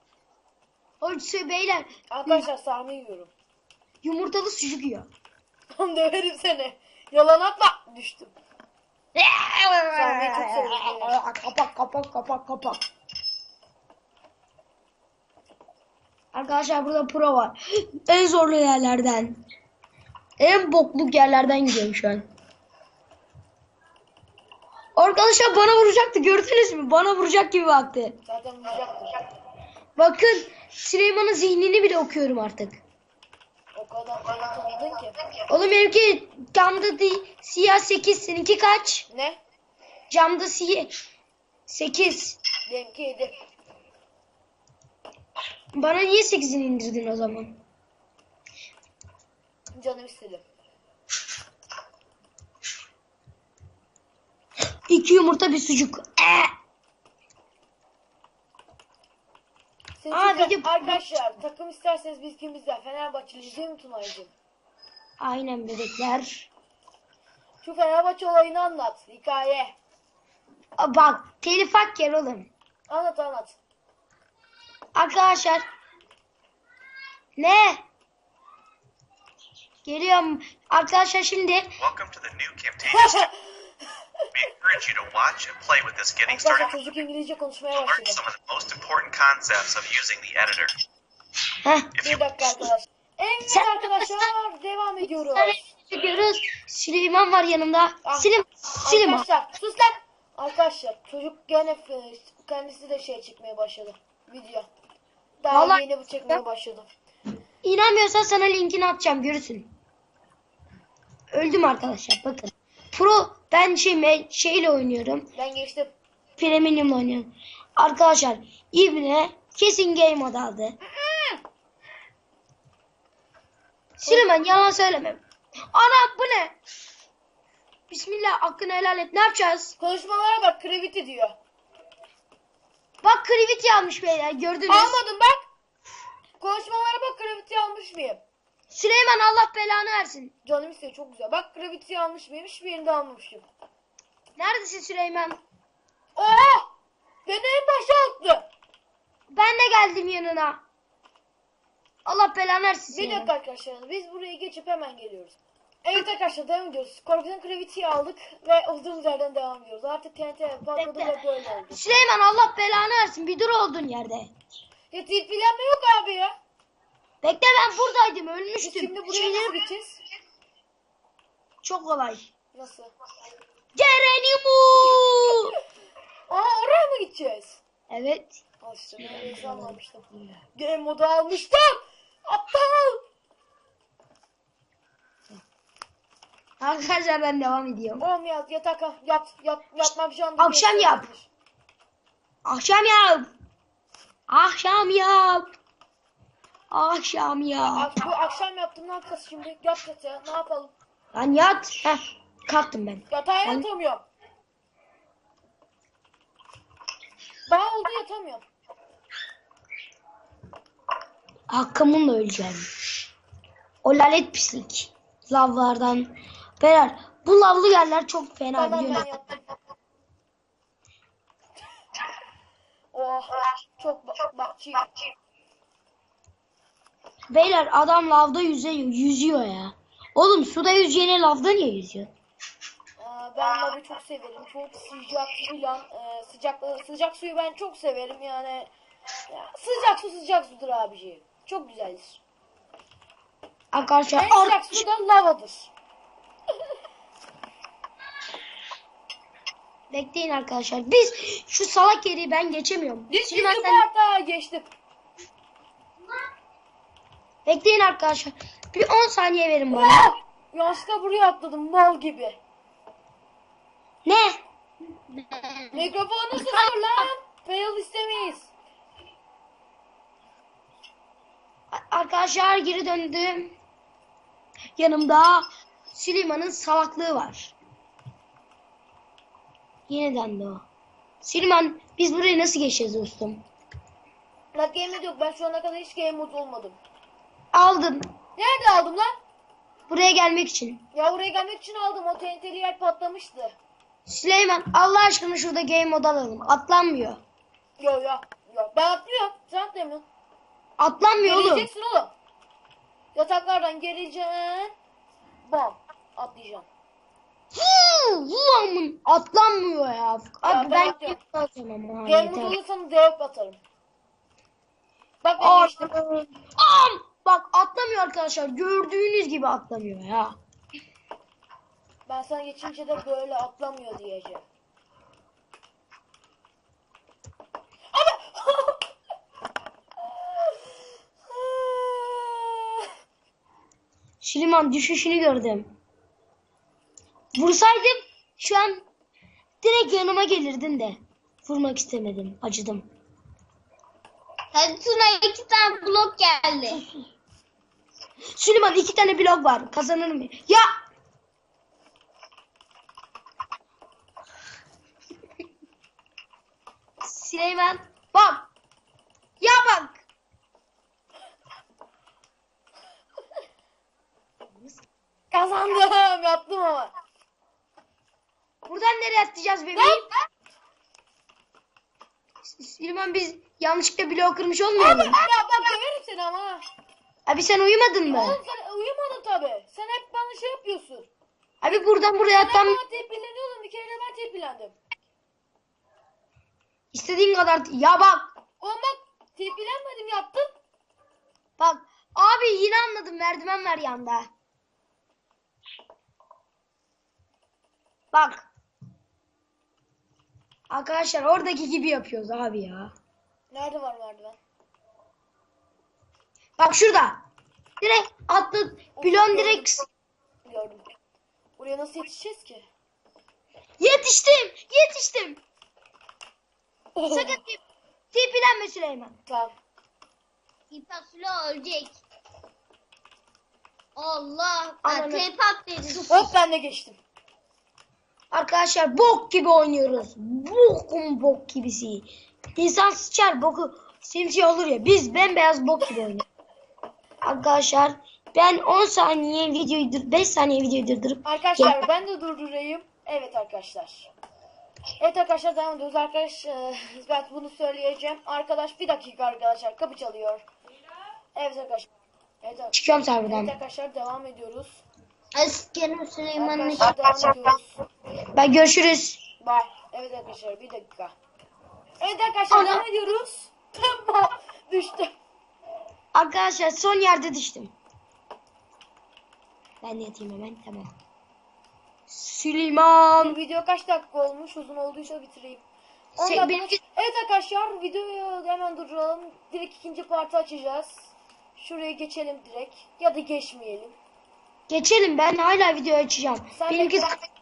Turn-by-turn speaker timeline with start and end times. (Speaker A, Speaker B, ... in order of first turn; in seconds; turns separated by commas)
Speaker A: 1.0-2.4, Speaker B: 2.1-3.3, Speaker A: 4.0-5.1, Speaker B: 5.8-8.3, Speaker A: 9.2-12.8, Speaker B: 9.9-11.2, Speaker A: 16.3-19.4, Speaker A: 20.4-22.3, Speaker A: 24.9-28.2, Speaker B: 28.2-29.1, Speaker A: 29.9-32.8, Speaker B: 33.8-35.1, Speaker A: 35.5-39.1, Speaker B: 39.1-39.4, Speaker A: 40.1-40.9, Speaker A: 41.7-42.4, Speaker B: 42.7-43.4, Speaker A: 45.7-47.6, Speaker B: 49.8-50.4, Speaker A: 54.9-56.5, Speaker B: 60.0-64.3, Speaker A: 60.1-61.0, Speaker A: 65.2-66.5, Speaker B: 67.6-69.8, Speaker A: 70.8-72.5, Speaker B: 72.9-73.6, Speaker A: 74.9-75.7, Speaker A: 77.4-77.8, Speaker A: 79.8-81.7, Speaker C: 81.8-83.3, Speaker B: 82.9-83.7, Speaker C: 84.3-86.8, Speaker B: 86.3-88.2, Speaker C: 87.8-90.7, Speaker A: 91.6-91.9, Speaker C: 91.9-92.3, Speaker B: 92.0-95.6, Speaker A: 93.5-94.1, Speaker A: 95.2-99.2, Speaker B: 98.0-98.3, Speaker B: 98.8-104.7, Speaker B: 105.4-106.9, Speaker A: 105.5-106.4, Speaker A: 107.6-109.7, Speaker A: 111.3-115.3, Speaker B: 115.3-115.9, Speaker A: 116.4-120.8, Speaker B: 120.8-121.4, Speaker A: 124.0-126.6, Speaker B: 124.0-124.6, Speaker A: 127.9-129.8, Speaker B: 129.8-131.3, Speaker A: 133.0-135.0, Speaker B: 134.7-135.5, Speaker B: 136.4-138.2, Speaker A: 138.7-140.3, Speaker B: 140.4-143.5, Speaker A: 144.4-145.4, Speaker B: 146.2-146.7, Speaker B: 147.2-148.5, Speaker A: 149.3-150.6, Speaker A: 152.1-153.3, Speaker B: 152.9-161.8, Speaker A: 160.8-161.1, Speaker A: 161.7-164.3, Speaker B: 164.9-166.3, Speaker A: 167.2-169.6, Speaker B: 168.6-170.0, Speaker A: 171.6-172.2, Speaker B: 172.5-172.9, Speaker A: 173.7-175.6, Speaker B: 176.3-177.6, Speaker A: 177.9-178.4, Speaker B: 178.6-183.0, Speaker A: 179.0-179.8, Speaker A: 186.6-188.1, Speaker B: 188.0-191.3, Speaker A: 190.4-191.1, Speaker A: 192.4-193.3, Speaker A: 194.3-195.5, Speaker A: 196.7-197.9, Speaker B: 197.7-200.7, Speaker A: 201.1-203.7, Speaker B: 203.1-204.1, Speaker B: 207.5-208.4, Speaker A: 211.5-212.6, Speaker A: 213.8-219.1, Speaker B: 218.6-219.5, Speaker B: 222.9-224.9, Speaker A: 227.3-232.1, Speaker B: 233.0-238.7, Speaker B: 239.3-242.2, Speaker A: 243.7-244.8, Speaker B: 244.1-245.7, Speaker A: 249.9-253.8, Speaker B: 253.1-254.7, Speaker A: 257.4-260.1, Speaker B: 259.7-262.4, Speaker A: 264.1-264.4, Speaker D: 265.1-265.9, Speaker B: 265.7-268.5, Speaker A: 271.7-273.6, Speaker A: 274.8-277.6, Speaker A: 279.9-280.6, Speaker A: 281.2-283.4, Speaker B: 284.5-286.8, Speaker A: 287.5-288.1, Speaker B: 288.4-289.1, Speaker A: 289.9-290.8, Speaker B: 290.9-293.6, Speaker A: 294.1-297.2, Speaker B: 297.8-300.1, Speaker A: 300.8-301.7, Speaker B: 301.2-302.1, Speaker B: 303.1-304.7, Speaker B: 305.4-306.7, Speaker A: 307.5-312.6, Speaker B: 310.4-311.2, Speaker B: 312.1-313.6, Speaker B: 315.2-315.9, Speaker A: 315.4-320.4, Speaker B: 322.1-324.4, Speaker B: 327.9-328.8, Speaker B: 330.1-330.6, Speaker B: 331.3-332.8, Speaker A: 334.2-335.7, Speaker A: 337.3-338.8, Speaker A: 339.6-342.9, Speaker D: 344.5-346.8, Speaker A: 346.7-347.1, Speaker A: 348.3-350.7, Speaker A: 357.0-358.5, Speaker A: 359.4-360.0, Speaker B: 365.3-366.9, Speaker A: 368.6-370.1, Speaker B: 369.8-370.2, Speaker A: 372.4-375.2, Speaker B: 374.8-376.6, Speaker A: 377.2-378.4, Speaker B: 378.1-381.1, Speaker A: 381.6-382.8, Speaker B: 382.3-384.8, Speaker A: 386.9-388.3, Speaker B: 388.6-390.5, Speaker A: 391.6-394.3, Speaker A: 398.1-398.5, Speaker A: 400.7-402.9, Speaker B: 403.5-404.4, Speaker A: 406.6-407.2, Speaker A: 407.8-409.8, Speaker B: 408.9-409.7, Speaker B: 410.4-410.9, Speaker B: 411.6-412.7, Speaker A: 413.8-415.4, Speaker B: 416.9-417.4, Speaker A: 417.1-417.6, Speaker A: 418.1-419.2, Speaker B: 419.3-419.5, Speaker D: 420.7-422.0, Speaker D: 423.9-426.3, Speaker A: 424.8-425.3, Speaker A: 425.9-426.1, Speaker B: 426.1-427.0, Speaker A: 428.3-436.2, Speaker A: 437.2-441.8, Speaker B: 441.2-444.1, Speaker B: 445.0-450.4, Speaker B: 451.3-451.9, Speaker B: 452.4-454.8, Speaker A: 452.7-453.5, Speaker D: 455.3-456.9, Speaker B: 456.3-457.8, Speaker A: 458.3-459.2, Speaker B: 459.4-461.1, Speaker B: 462.0-465.1, Speaker A: 462.5-462.8, Speaker A: 466.1-467.7, Speaker A: 469.8-470.9, Speaker A: 472.1-473.4, Speaker B: 473.2-475.6, Speaker A: 476.2-476.8, Speaker B: 476.2-483.9, Speaker A: 484.7-487.1, Speaker B: 486.5-487.1